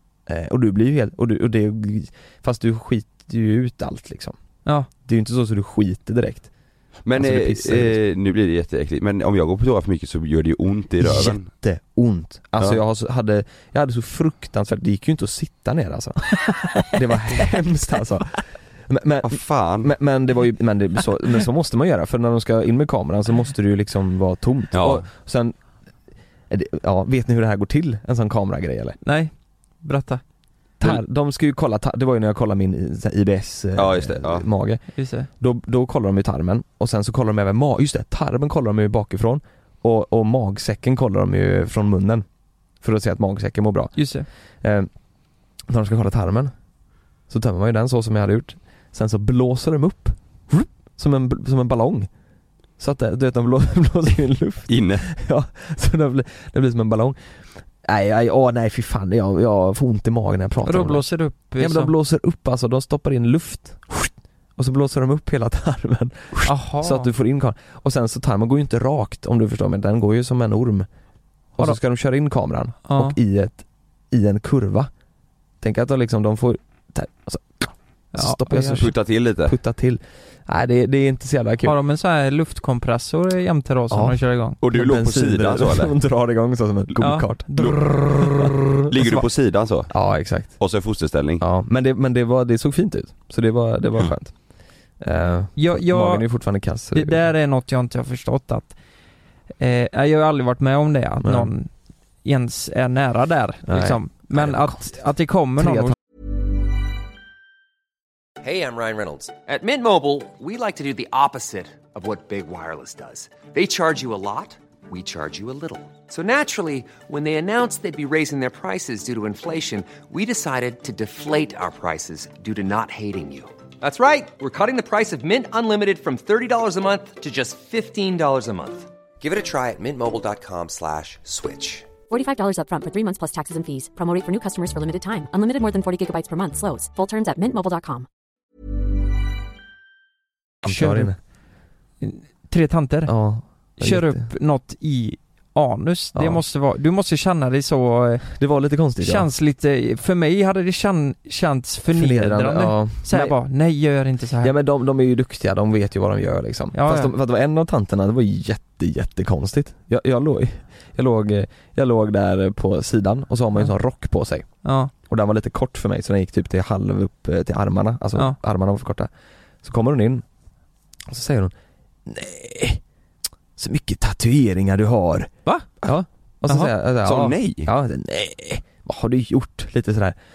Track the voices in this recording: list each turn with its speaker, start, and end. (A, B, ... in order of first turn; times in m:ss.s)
0:00.3-0:04.4 A
0:05.0-0:06.5 A
0:07.0-0:11.5 B
0:07.1-0:08.0 A
0:11.0-0:18.3 A
0:16.5-0:16.9 C
0:18.9-0:25.5 A
0:19.2-0:19.9 B
0:24.7-0:25.0 B
0:26.5-0:29.0 A
0:29.0-0:30.2 C
0:30.8-0:42.2 A
0:33.8-0:34.4 B
0:34.9-0:35.3 C
0:42.8-0:43.9 A
0:44.0-0:44.3 C
0:44.6-0:44.9 A
0:45.7-0:46.5 A
0:47.3-0:52.1 A
0:52.8-0:57.2 A
0:54.7-0:55.0 B
0:57.8-1:01.0 A
1:00.6-1:01.9 C
1:01.6-1:10.9 A
1:06.4-1:07.1 C
1:11.5-1:14.9 A
1:12.8-1:13.1 C
1:15.6-1:21.7 A
1:18.1-1:18.8 C
1:18.8-1:19.5 B
1:21.6-1:24.6 C
1:23.9-1:29.2 A
1:24.6-1:25.9 B
1:27.0-1:28.5 C
1:28.8-1:29.9 B
1:29.9-1:30.7 A
1:30.6-1:31.4 B
1:31.4-1:34.4 A
1:35.0-1:37.3 A
1:35.6-1:36.2 C
1:36.9-1:38.7 C
1:39.6-1:41.7 C
1:41.2-1:41.5 A
1:42.2-1:46.0 C
1:43.6-1:46.0 A
1:48.4-2:11.9 D
2:12.1-2:18.0 E
2:20.6-2:21.1 C
2:20.6-2:21.2 A
2:22.0-2:23.1 C
2:23.0-2:24.3 A
2:23.8-2:28.3 C
2:26.1-2:26.4 A
2:28.3-2:29.2 A
2:29.0-2:34.5 C
2:31.9-2:33.4 A
2:34.4-2:44.5 A
2:36.7-2:37.1 C
2:44.6-2:44.9 C
2:45.0-2:49.1 A
2:49.6-2:50.2 A
2:51.1-2:51.5 A
2:52.0-2:52.8 A
2:53.6-2:55.3 A
2:55.8-3:00.2 A
2:57.0-2:57.7 B